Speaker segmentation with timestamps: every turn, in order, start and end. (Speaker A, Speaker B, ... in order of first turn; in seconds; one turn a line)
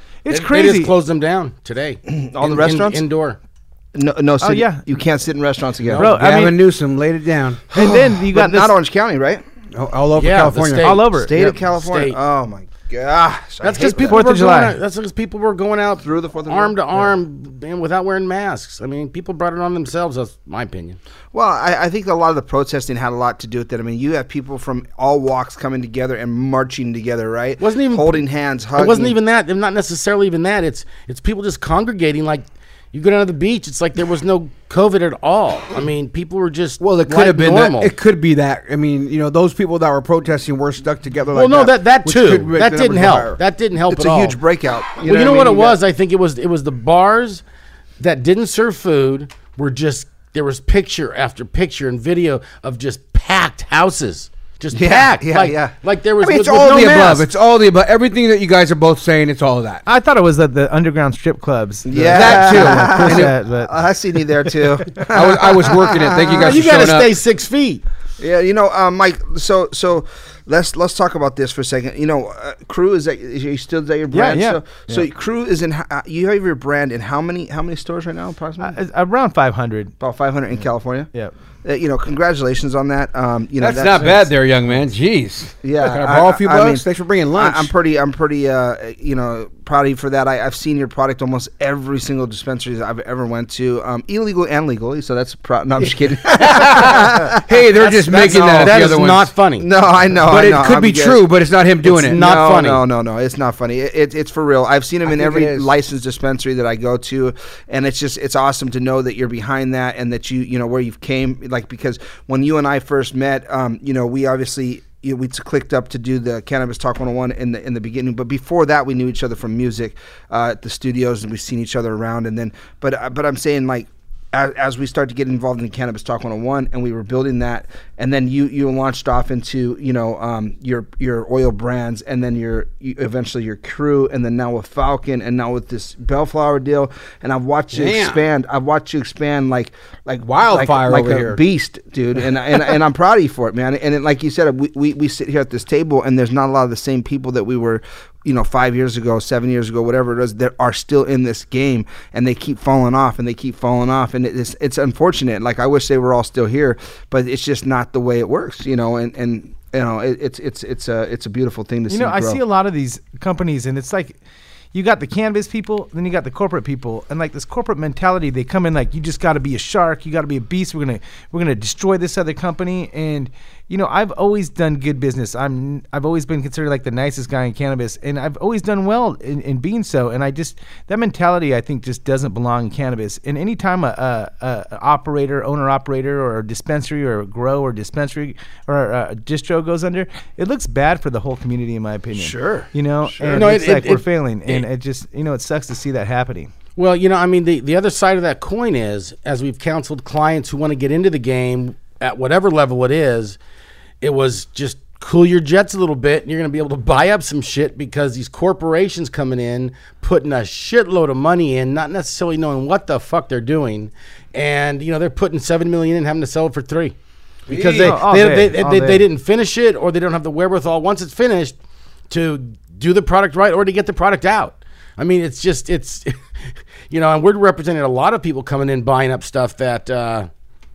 Speaker A: 0.2-0.9
Speaker B: 0.3-3.4
Speaker C: 2.1-3.0
Speaker C: 4.0-6.1
Speaker A: 4.4-4.8
Speaker D: 5.9-7.6
Speaker A: 6.0-6.6
Speaker C: 7.7-9.4
Speaker A: 7.7-8.7
Speaker D: 9.7-11.0
Speaker B: 10.2-12.2
Speaker A: 10.8-11.3
Speaker C: 11.3-14.4
Speaker B: 13.6-21.0
Speaker A: 14.0-14.8
Speaker C: 16.0-17.1
Speaker C: 21.3-29.2
Speaker B: 27.6-28.2
Speaker B: 28.8-37.9
Speaker D: 36.8-43.4
Speaker B: 41.3-44.4
Speaker C: 43.9-45.8
Speaker B: 45.0-47.4
Speaker B: 48.0-57.3
Speaker C: 54.7-55.8
Speaker D: 56.2-59.8
Speaker A: 59.9-63.7
Speaker C: 61.9-66.6
Speaker D: 62.1-63.3
Speaker D: 65.1-67.2
Speaker B: 66.2-67.8
Speaker C: 68.2-78.8
Speaker A: 74.1-75.1
Speaker A: 78.6-79.9
Speaker C: 80.0-81.1
Speaker C: 81.6-84.3
Speaker D: 83.6-87.7
Speaker C: 85.6-86.8
Speaker C: 87.4-98.9
Speaker D: 96.4-99.4
Speaker B: 98.2-99.7
Speaker C: 99.6-101.2
Speaker D: 100.3-102.2
Speaker C: 101.8-162.4
Speaker B: 101.9-102.8
Speaker D: 105.0-105.7
Speaker D: 137.7-138.2
Speaker D: 140.3-141.4
Speaker A: 161.9-164.2
Speaker A: 164.7-196.5
Speaker C: 192.2-193.5
Speaker B: 193.3-194.6
Speaker B: 196.8-203.4
Speaker B: 204.0-216.9
Speaker B: 217.5-221.6
Speaker D: 217.5-217.9
Speaker A: 217.8-219.1
Speaker B: 222.1-226.2
Speaker B: 226.9-230.3